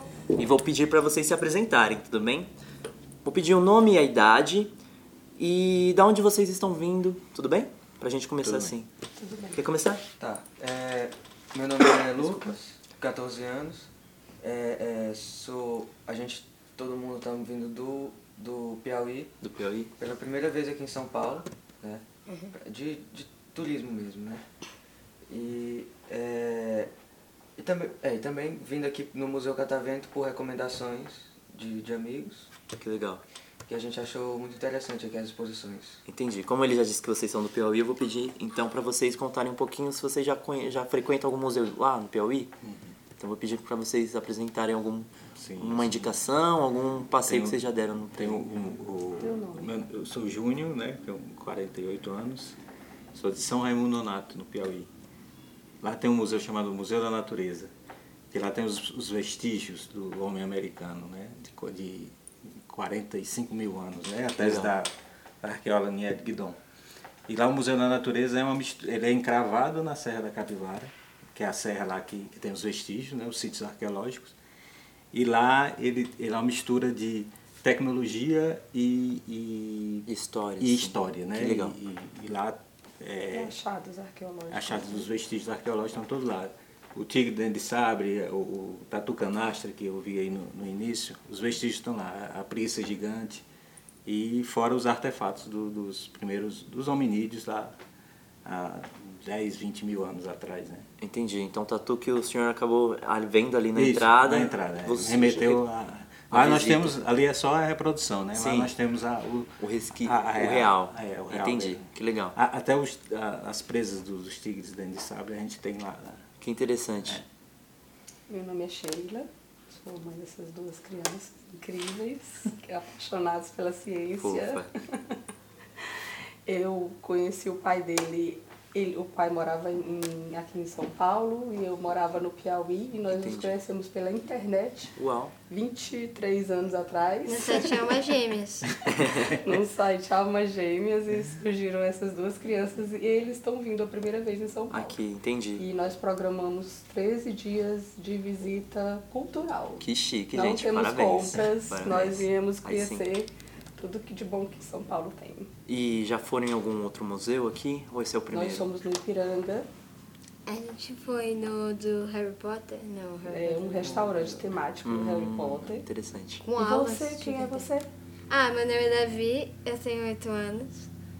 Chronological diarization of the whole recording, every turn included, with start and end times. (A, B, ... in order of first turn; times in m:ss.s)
0:00.4-0:02.5 A
0:03.2-0:04.7 A
0:05.4-0:08.9 A
0:08.4-0:08.8 B
0:09.2-0:09.7 C
0:09.5-0:10.0 A
0:10.2-0:13.9 D
0:14.4-0:19.3 D
0:19.4-0:19.9 A
0:20.0-0:24.4 D
0:22.3-0:22.5 E
0:25.3-0:26.9 D
0:27.6-0:32.5 D
0:32.8-0:33.2 A
0:33.7-0:36.0 D
0:36.1-0:42.5 A
0:42.6-0:42.9 B
0:43.2-0:48.3 A
0:45.4-0:46.2 B
0:47.2-0:47.6 B
0:48.1-0:52.6 B
0:49.2-0:49.8 C
0:53.1-0:54.9 B
0:55.8-0:57.7 B
0:58.3-1:06.6 B
1:04.4-1:04.7 A
1:07.3-1:14.3 B
1:15.1-1:20.1 B
1:20.1-1:21.8 A
1:20.6-1:23.6 B
1:23.3-1:25.1 C
1:24.5-1:33.4 B
1:34.1-1:37.8 B
1:38.4-1:40.9 B
1:41.0-1:45.7 A
1:43.7-1:56.2 B
1:46.3-1:47.0 A
1:48.3-1:48.7 A
1:49.6-1:52.4 A
1:56.4-1:57.2 A
1:58.3-2:05.2 C
2:04.2-2:04.7 A
2:06.5-2:15.0 C
2:13.1-2:13.6 A
2:15.0-2:15.3 A
2:15.5-2:18.0 C
2:17.3-2:18.7 E
2:18.9-2:19.3 A
2:19.2-2:25.0 C
2:24.7-2:25.6 A
2:25.6-2:35.5 C
2:29.8-2:33.1 A
2:35.7-2:38.7 A
2:38.3-2:39.7 C
2:40.5-2:43.9 E
2:43.3-2:45.9 C
2:43.8-2:44.5 D
2:44.8-2:46.5 A
2:46.4-2:47.7 E
2:46.6-2:47.9 C
2:48.3-2:50.9 E